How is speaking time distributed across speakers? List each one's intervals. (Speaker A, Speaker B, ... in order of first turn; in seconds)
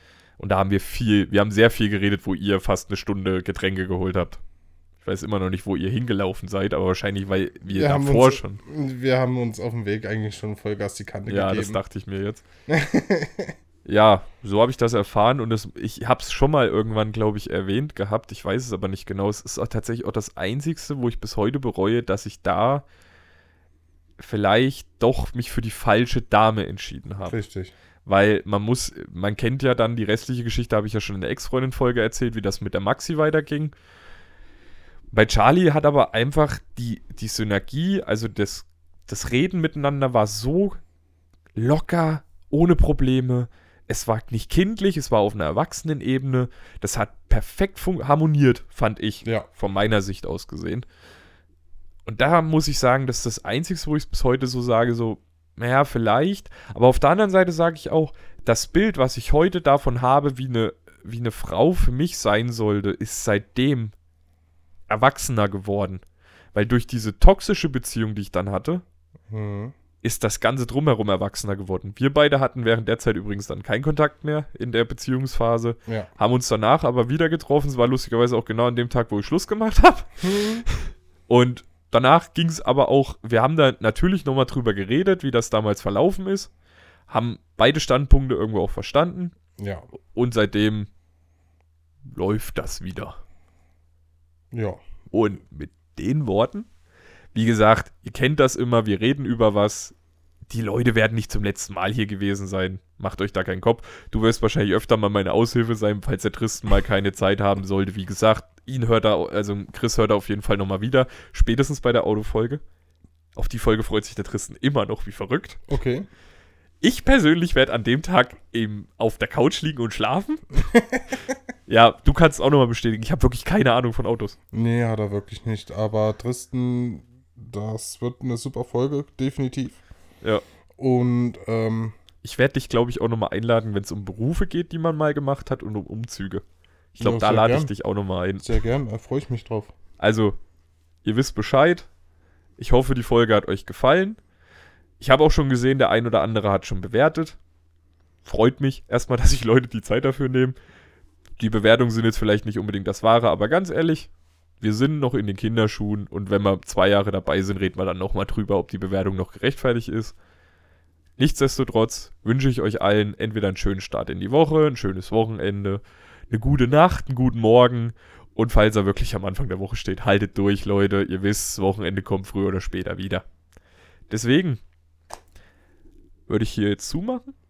Speaker A: 0.4-4.4, 5.0-8.6, 11.3-12.4, 13.8-22.8, 24.2-27.4, 28.0-33.7, 35.1-40.8, 41.5-50.9, 52.0-63.9, 64.9-66.0, 66.5-68.8, 70.0-86.5, 87.1-89.3, 90.1-90.9, 92.1-93.2, 95.1-96.7, 97.3-99.9, 100.5-112.6, 113.3-115.6, 116.8-120.4, 121.7-124.3, 132.2-136.4, 136.9-138.6, 140.0-140.4, 141.0-141.9, 142.6-144.2, 145.0-147.4, 148.2-150.6, 151.4-154.1, 154.6-160.1, 161.2-173.2, 174.1-174.6, 176.3-177.3
Speaker B: 7.7-11.8, 12.7-13.5, 27.3-27.7, 69.3-69.7, 80.2-80.7, 89.6-89.8, 94.5-94.8, 115.7-116.1, 120.6-121.2, 124.5-129.8, 130.8-131.9, 137.0-137.7, 138.4-139.7